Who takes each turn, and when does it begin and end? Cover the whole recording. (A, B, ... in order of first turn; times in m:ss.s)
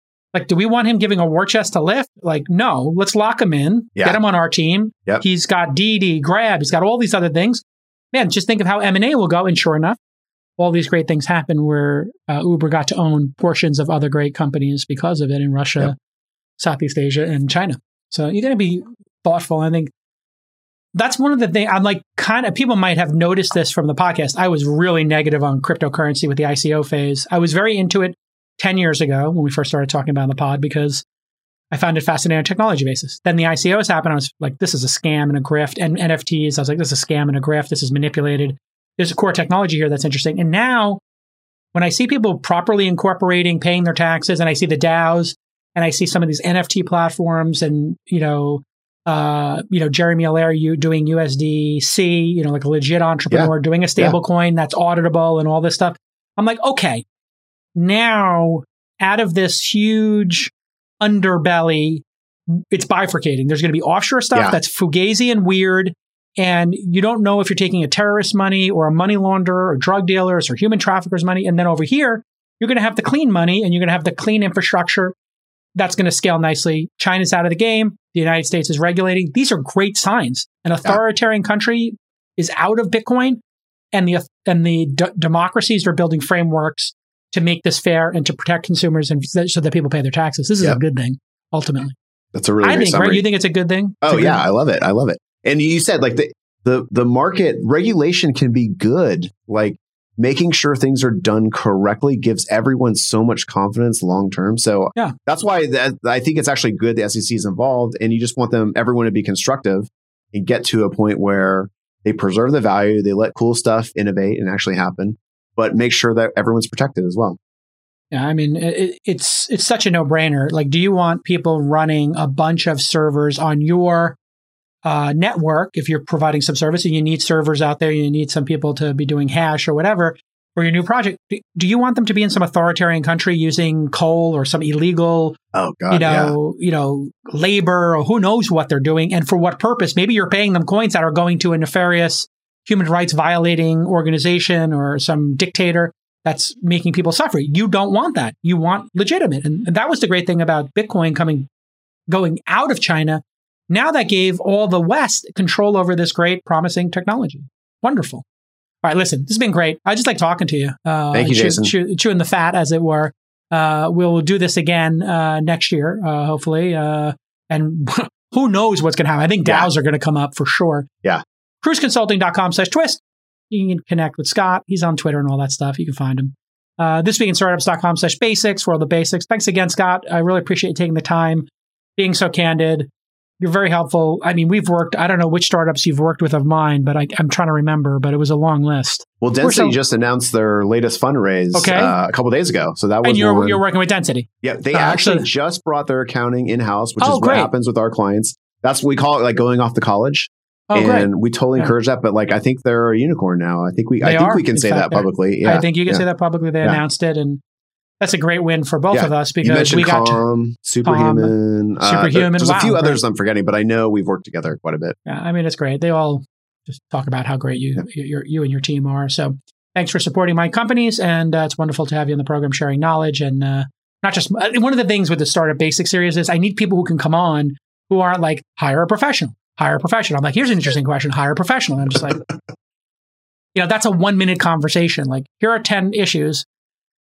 0:00.3-0:10.0 A
0:10.6-0:15.9 A
0:16.6-0:19.9 A
0:20.9-0:31.0 A
0:31.7-0:41.0 A
0:41.7-0:57.0 A
0:53.3-0:54.2 B
0:57.8-1:15.1 A
1:15.7-1:23.4 A
1:23.9-1:31.9 A
1:32.3-1:33.2 B
1:32.6-1:34.4 A
1:34.0-1:57.4 B
1:58.1-2:04.2 A
2:04.8-2:15.4 A
2:15.5-2:16.3 B
2:15.9-2:31.5 A
2:32.1-2:38.2 A
2:38.8-2:50.9 A
2:41.1-2:41.7 B
2:51.6-3:09.8 A
3:09.2-3:13.6 B
3:11.5-3:11.9 A
3:13.0-3:15.3 A
3:14.4-3:26.0 B
3:17.0-3:17.5 A
3:20.7-3:21.7 A
3:24.0-3:27.4 A
3:28.0-3:30.2 A
3:28.9-3:35.0 B
3:30.8-3:33.0 A
3:35.0-3:52.2 A
3:53.5-3:56.4 A